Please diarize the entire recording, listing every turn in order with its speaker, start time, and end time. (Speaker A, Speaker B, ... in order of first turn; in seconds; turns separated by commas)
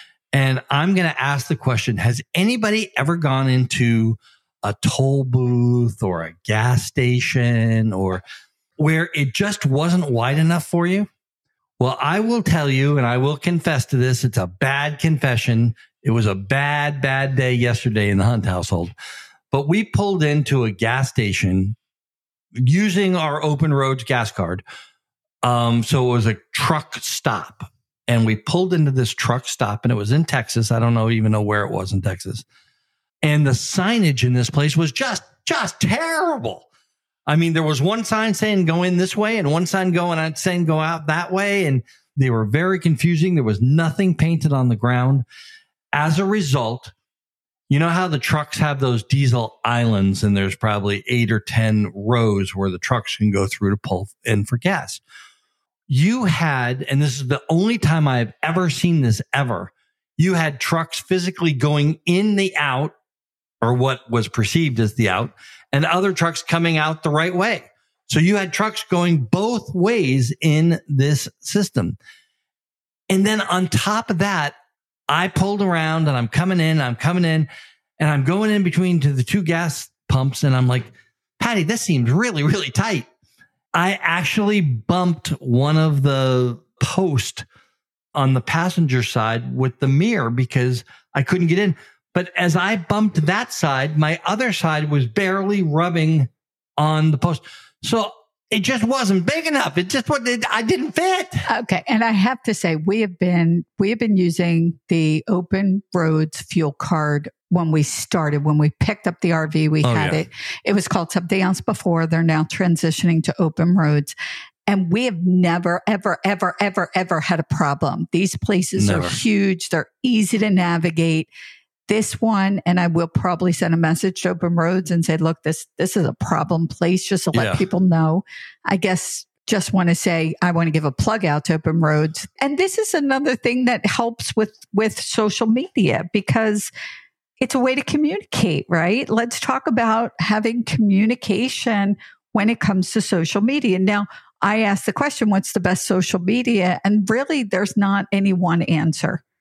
Speaker A: 0.3-8.2, Speaker A: 8.8-11.1, Speaker A: 11.8-18.9, Speaker A: 19.5-21.8, Speaker A: 22.6-24.6, Speaker A: 25.4-32.4, Speaker A: 33.2-36.7, Speaker A: 37.3-45.2, Speaker A: 45.9-46.9, Speaker A: 47.7-55.0, Speaker A: 55.9-62.9, Speaker A: 63.6-72.0, Speaker A: 73.1-74.5, Speaker A: 75.1-77.5, Speaker A: 78.0-83.1, Speaker A: 83.7-87.5, Speaker A: 88.1-101.4, Speaker B: 101.5-114.1, Speaker A: 109.8-110.2, Speaker B: 114.7-121.3, Speaker A: 118.8-119.2, Speaker B: 121.9-136.7, Speaker A: 127.3-127.6, Speaker B: 137.4-149.2